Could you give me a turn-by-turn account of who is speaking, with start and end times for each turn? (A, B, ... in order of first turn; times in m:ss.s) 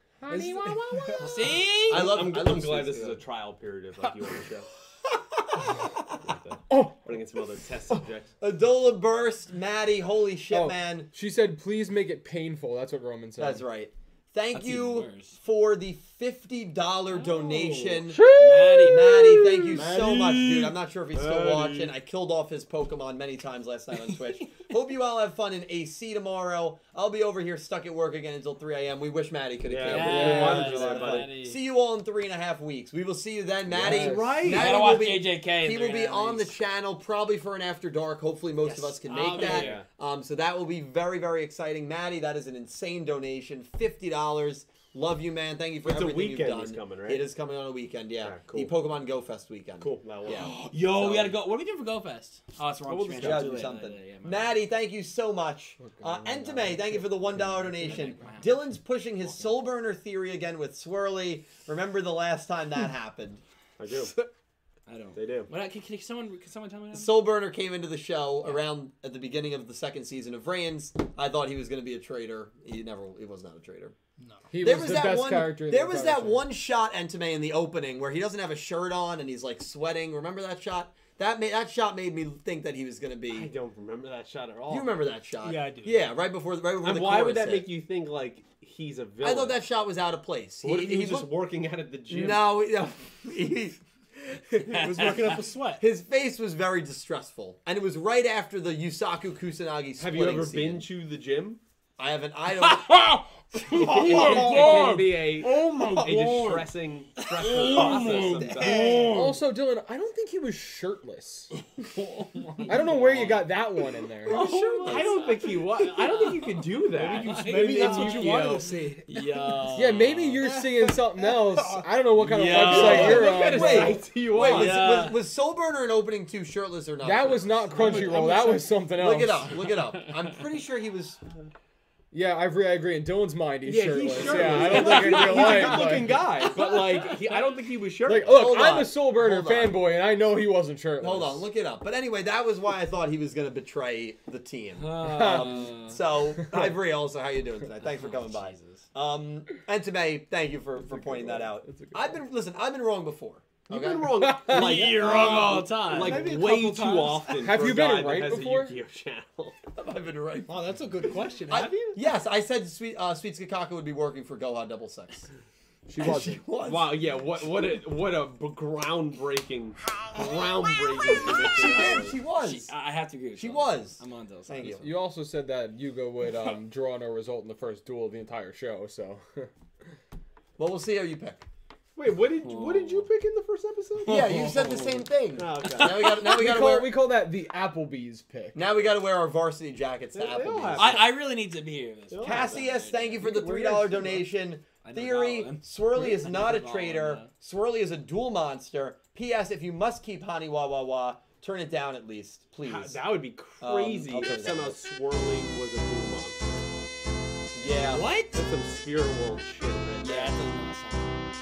0:00.3-0:01.2 A
0:00.3-0:01.6 B
0:01.2-0:02.1 C
0:01.8-0:03.2 D
0:01.9-0:04.7 E
0:06.2-0:08.3 E
0:06.7-0:07.0 A
0:08.4-0:11.1 D
0:10.5-0:13.6 A
0:13.4-0:50.5 D
0:14.5-0:15.4 C
0:17.1-0:19.4 C
0:18.1-0:20.7 A
0:19.8-0:20.2 E
0:21.1-0:22.0 E
0:29.7-0:31.3 E
0:29.9-0:31.6 C
0:30.0-0:30.8 A
0:33.7-0:34.8 E
0:33.8-0:34.4 A
0:34.4-0:36.5 C
0:38.6-0:39.8 C
0:39.3-0:39.9 E
0:45.8-0:47.2 E
0:48.2-0:48.7 E
0:49.8-0:51.4 E
0:50.3-0:54.6 C
0:52.9-0:53.7 E
0:53.2-1:03.4 D
0:55.8-0:58.0 A
0:57.8-0:58.6 C
0:59.2-0:59.5 C
1:03.8-1:04.1 E
1:04.9-1:07.1 C
1:05.2-1:05.5 E
1:06.9-1:14.0 D
1:14.2-1:14.5 B
1:14.5-1:16.4 A
1:14.6-1:23.5 D
1:23.3-1:24.9 E
1:24.7-1:27.7 D
1:25.4-1:26.1 B
1:26.8-1:29.6 E
1:29.2-1:31.3 D
1:30.6-1:32.5 E
1:32.1-1:40.9 D
1:34.7-1:35.9 B
1:40.0-1:41.6 E
1:42.0-1:43.0 D
1:43.0-1:46.5 A
1:43.8-1:49.1 E
1:43.8-1:46.6 B
1:47.4-1:48.0 C
1:47.4-1:49.4 B
1:47.4-1:51.5 A
1:52.0-1:53.5 C
1:52.6-1:54.4 A
1:54.3-1:55.4 C
1:54.3-1:58.7 E
1:54.8-1:55.1 B
1:56.0-1:56.3 C
1:56.9-1:59.2 B
1:57.2-2:00.4 C
1:59.8-2:04.0 A
2:00.4-2:03.1 B
2:02.2-2:04.9 E
2:02.2-2:03.3 C
2:02.6-2:11.2 D
2:04.4-2:05.2 C
2:07.0-2:09.8 A
2:07.7-2:08.7 B
2:12.1-2:17.4 A
2:13.6-2:18.5 E
2:14.3-2:15.8 D
2:18.1-2:21.4 A
2:18.2-2:19.8 D
2:21.0-2:34.3 D
2:24.8-2:26.0 C
2:25.0-2:25.8 A
2:26.5-2:26.7 A
2:27.8-2:28.9 C
2:30.8-2:32.2 A
2:33.7-2:39.6 E
2:34.2-2:35.4 A
2:34.5-2:36.3 C
2:36.0-2:37.7 B
2:37.3-2:38.8 A
2:39.7-2:40.6 D
2:40.5-2:42.0 B
2:41.5-2:45.3 D
2:45.9-2:46.4 A
2:46.0-2:47.0 D
2:46.6-2:52.2 E
2:51.5-2:52.7 D
2:52.4-2:54.9 C
2:53.4-2:54.9 D
2:54.8-2:59.5 A
3:00.6-3:01.5 D
3:02.0-3:04.7 E
3:02.4-3:03.1 C
3:04.0-3:07.0 D
3:04.3-3:05.0 C
3:05.3-3:06.2 E
3:06.1-3:08.7 A
3:08.5-3:11.1 D
3:10.1-3:11.1 E
3:10.8-3:13.4 C
3:12.1-3:14.2 E
3:12.2-3:23.0 D
3:14.8-3:17.3 C
3:22.6-3:26.8 E
3:23.6-3:24.8 D
3:27.5-3:28.1 D
3:27.8-3:28.3 C
3:28.3-3:30.4 E
3:30.0-3:31.3 C